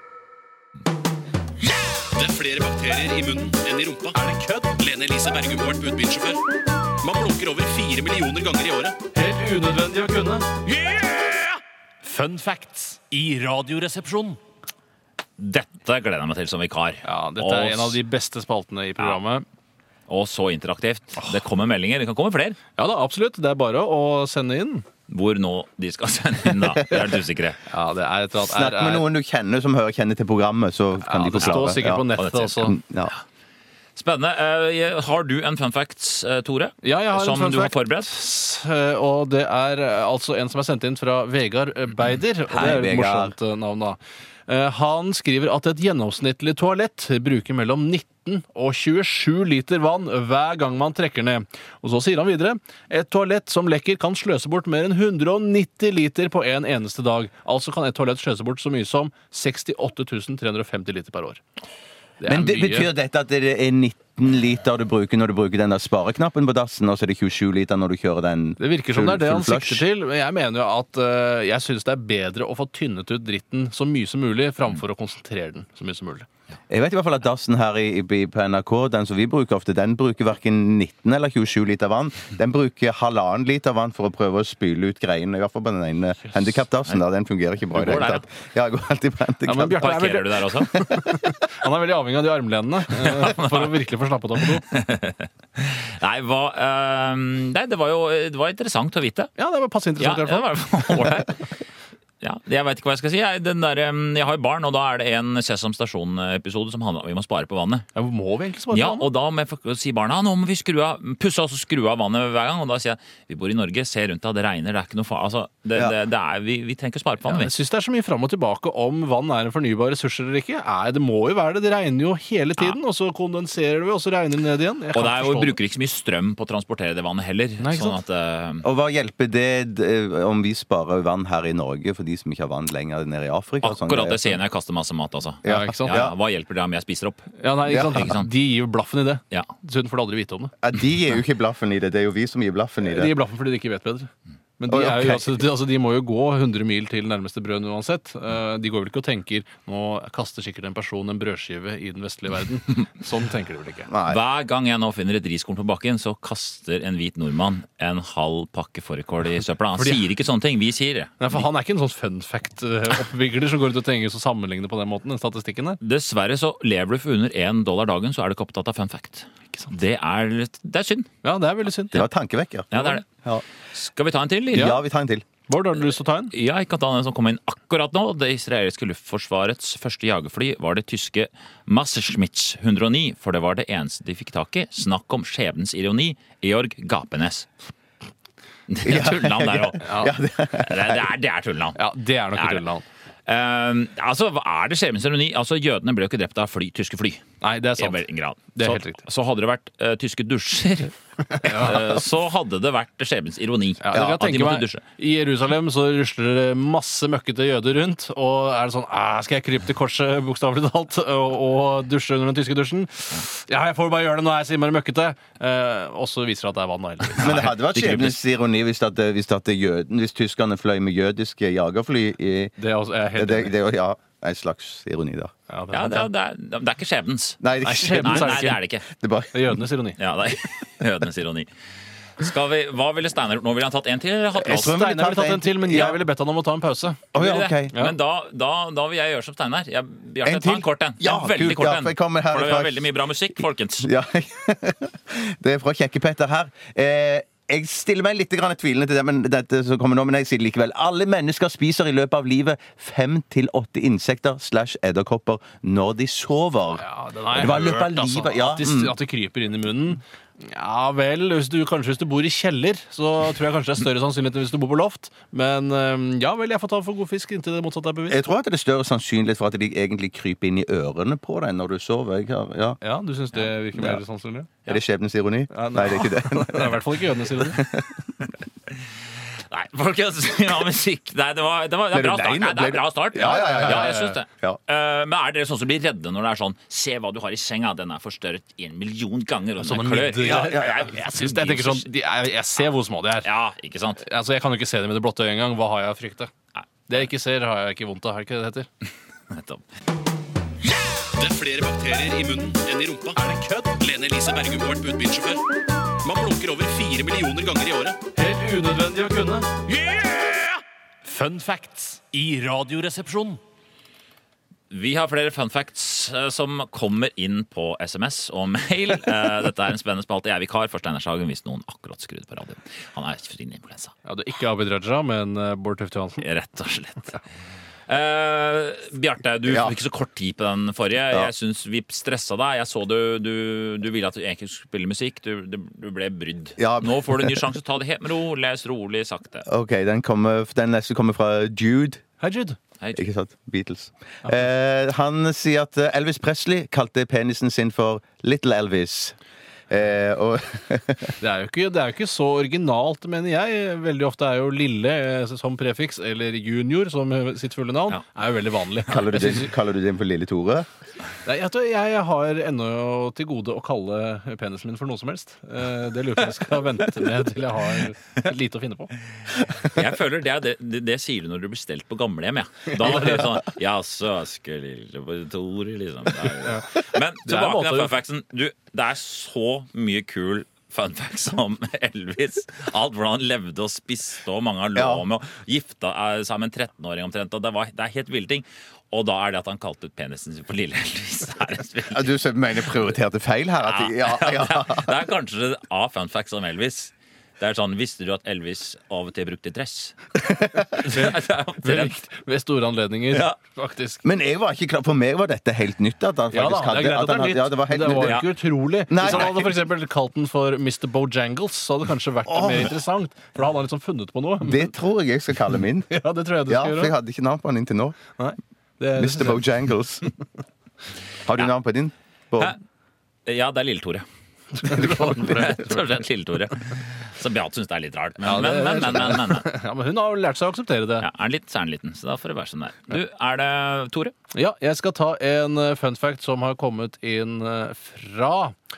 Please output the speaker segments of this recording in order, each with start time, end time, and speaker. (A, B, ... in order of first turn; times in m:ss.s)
0:02.1-0:04.1 A
0:04.1-0:05.0 B
0:04.8-0:06.4 A
0:07.0-0:09.0 A
0:09.0-0:10.6 B
0:12.0-0:14.4 B
0:15.4-0:18.0 C
0:17.0-0:19.4 B
0:20.1-0:22.6 C
0:22.8-0:24.8 B
0:25.1-0:27.6 C
0:26.6-0:27.2 D
0:27.7-0:29.1 B
0:28.4-0:33.1 D
0:31.0-0:32.8 B
0:31.3-0:32.7 C
0:34.0-0:38.1 C
0:36.8-1:01.4 B
0:42.5-0:43.3 D
1:02.2-1:02.9 B
1:02.2-1:09.8 D
1:08.6-1:16.3 B
1:16.7-1:29.8 D
1:26.3-1:26.6 B
1:27.7-1:28.2 C
1:29.4-1:34.6 B
1:29.8-1:30.7 C
1:30.7-1:31.3 D
1:32.9-1:33.8 C
1:34.4-1:39.3 C
1:39.4-1:41.2 B
1:40.0-1:41.4 C
1:42.2-1:47.8 C
1:47.9-1:49.1 B
1:48.7-1:57.5 C
1:57.2-2:05.6 B
2:04.9-2:08.6 C
2:07.6-2:08.0 B
2:08.6-2:14.4 D
2:13.6-2:17.4 C
2:15.4-2:16.1 D
2:15.4-2:16.0 B
2:17.4-2:20.5 B
2:17.7-2:18.1 D
2:17.9-2:18.3 C
2:20.6-2:23.2 D
2:22.8-2:33.9 B
2:24.7-2:25.4 D
2:33.9-2:34.2 D
2:34.0-2:41.4 C
2:39.8-2:40.1 B
2:41.2-2:45.8 B
2:45.8-2:51.1 C
2:51.2-2:52.0 B
2:51.9-2:53.4 D
2:52.7-2:53.1 C
2:53.7-2:54.8 C
2:54.5-2:54.8 B
2:54.5-2:55.2 D
2:55.5-2:56.3 B
2:55.8-3:07.5 C
3:08.7-3:09.8 C
3:08.8-3:11.1 D
3:09.8-3:10.1 B
3:10.6-3:11.8 C
3:11.7-3:12.8 B
3:12.3-3:12.6 C
3:13.3-3:17.2 C
3:17.4-3:19.0 B
3:17.8-3:24.8 C
3:21.3-3:21.9 B
3:23.8-3:37.5 B
3:37.2-3:38.2 C
3:37.2-3:42.5 D
3:42.6-3:43.5 B
3:43.2-3:45.3 D
3:45.5-3:46.1 B
3:45.7-3:48.8 C
3:47.4-3:49.6 D
3:47.6-3:48.6 B
3:49.3-3:50.0 B
3:50.0-3:51.5 C
3:52.2-3:54.8 C
3:54.4-3:56.0 D
3:54.5-3:57.0 B
3:57.1-4:03.9 C
3:57.1-3:57.7 D
4:00.2-4:02.9 D
4:03.8-4:18.9 D
4:16.8-4:28.2 B
4:28.1-4:32.8 D
4:32.8-4:34.5 B
4:33.7-4:34.0 D
4:34.6-4:38.3 D
4:35.5-4:37.6 B
4:39.5-4:51.9 C
4:41.9-4:44.6 D
4:43.3-4:44.2 B
4:49.6-4:53.3 B
4:50.2-4:50.8 D
4:53.2-4:54.0 C
4:54.0-4:56.3 B
4:56.9-4:58.7 B
4:59.3-4:59.6 C
5:01.1-5:03.1 A
5:03.0-5:04.2 B
5:03.9-5:05.4 A
5:06.0-5:08.0 A
5:08.0-5:09.5 B
5:11.0-5:13.4 B
5:14.7-5:23.9 C
5:24.0-5:26.2 B
5:26.2-5:27.2 C
5:27.9-5:39.4 C
5:29.5-5:29.7 D
5:36.6-5:37.4 D
5:39.4-5:42.0 D
5:42.2-5:42.6 B
5:42.9-5:49.2 D
5:49.7-5:51.2 D
5:51.2-5:59.5 B
5:58.9-6:00.7 D
6:01.2-6:08.9 B
6:09.4-6:09.8 D
6:09.6-6:32.1 C
6:12.8-6:13.2 B
6:16.4-6:16.7 B
6:17.2-6:17.9 B
6:24.7-6:25.0 D
6:31.9-6:35.0 D
6:33.6-6:42.0 C
6:40.2-6:40.6 D
6:40.8-6:44.0 B
6:43.1-6:43.4 C
6:44.0-6:48.2 D
6:46.3-6:54.7 B
6:48.0-6:48.3 C
6:48.9-6:49.5 D
6:49.0-6:49.3 C
6:52.2-6:52.7 D
6:54.4-6:55.9 D
6:55.9-6:56.9 B
6:56.5-6:58.0 D
6:58.2-6:59.5 B
6:59.0-7:00.0 D
7:01.2-7:02.6 D
7:03.2-7:04.0 C
7:04.6-7:05.8 B
7:04.6-7:09.5 C
7:08.2-7:11.1 B
7:11.0-7:14.1 C
7:14.3-7:18.6 B